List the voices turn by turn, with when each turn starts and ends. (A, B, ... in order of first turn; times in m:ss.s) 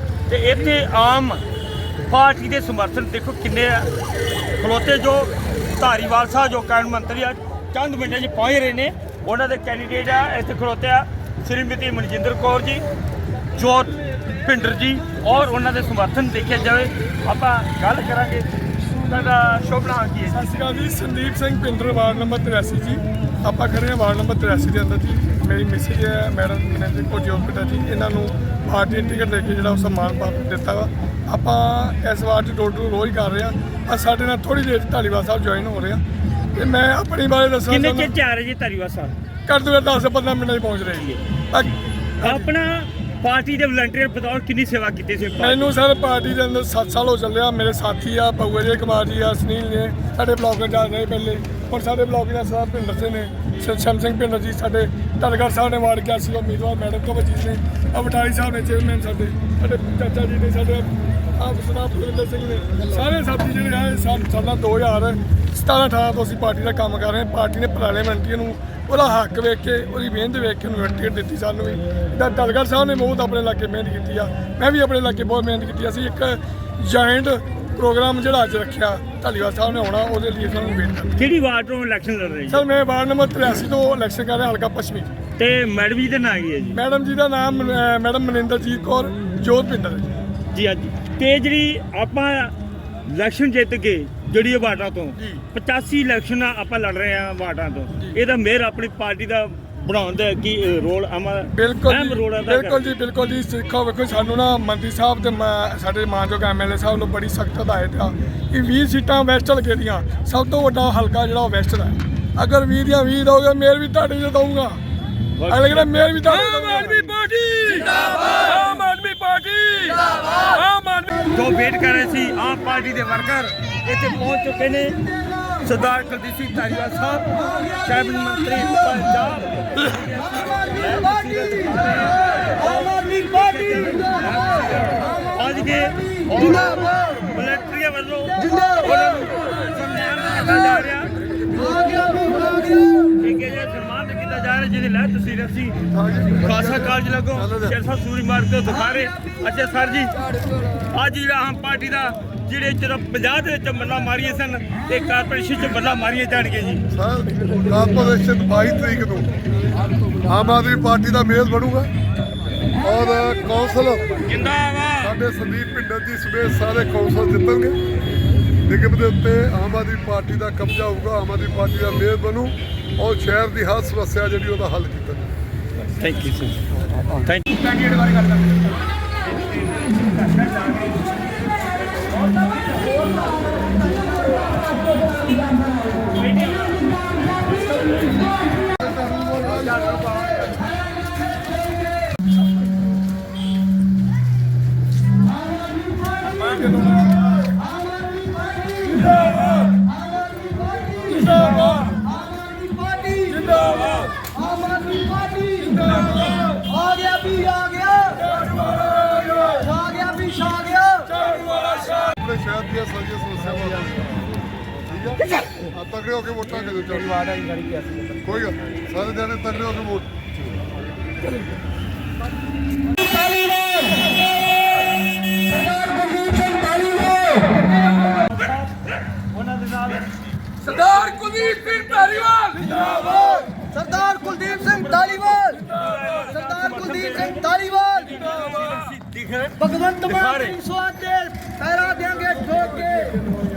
0:00.3-0:01.4 A
0:02.0-0:03.9 A
0:04.6-0:12.8 A
0:13.6-0:20.5 A
0:20.3-0:36.0 B
0:36.6-0:38.1 B
0:37.7-0:39.1 A
0:39.5-0:42.5 B
0:42.2-0:45.7 A
0:45.4-1:21.1 B
1:21.2-1:22.6 A
1:22.5-1:25.1 B
1:25.4-1:26.8 A
1:26.7-1:30.2 B
1:30.5-1:32.5 A
1:33.0-1:42.9 A
1:41.5-1:54.8 B
1:55.4-1:55.9 A
1:55.5-2:01.1 B
1:56.5-1:58.4 A
2:01.2-2:21.1 A
2:21.8-2:23.0 C
2:23.1-2:30.1 A
2:25.9-2:27.7 D
2:30.8-2:36.8 A
2:36.9-2:39.3 D
2:40.2-2:41.9 D
2:42.8-2:44.2 D
2:44.2-2:45.2 A
2:45.0-2:47.8 D
2:48.6-2:55.3 D
2:55.8-2:56.6 A
2:57.1-2:58.7 A
3:00.0-3:01.3 A
3:02.0-3:03.4 A
3:06.0-3:06.9 A
3:08.8-3:09.5 D
3:09.6-3:10.4 A
3:16.3-3:16.9 A
3:22.5-3:23.7 C
3:24.8-3:25.9 C
3:26.6-3:28.4 C
3:29.4-3:31.3 C
3:31.4-3:34.3 D
3:34.8-3:37.4 D
3:37.3-3:38.1 C
3:38.1-3:40.1 D
3:48.1-4:00.6 A
4:00.6-4:03.3 C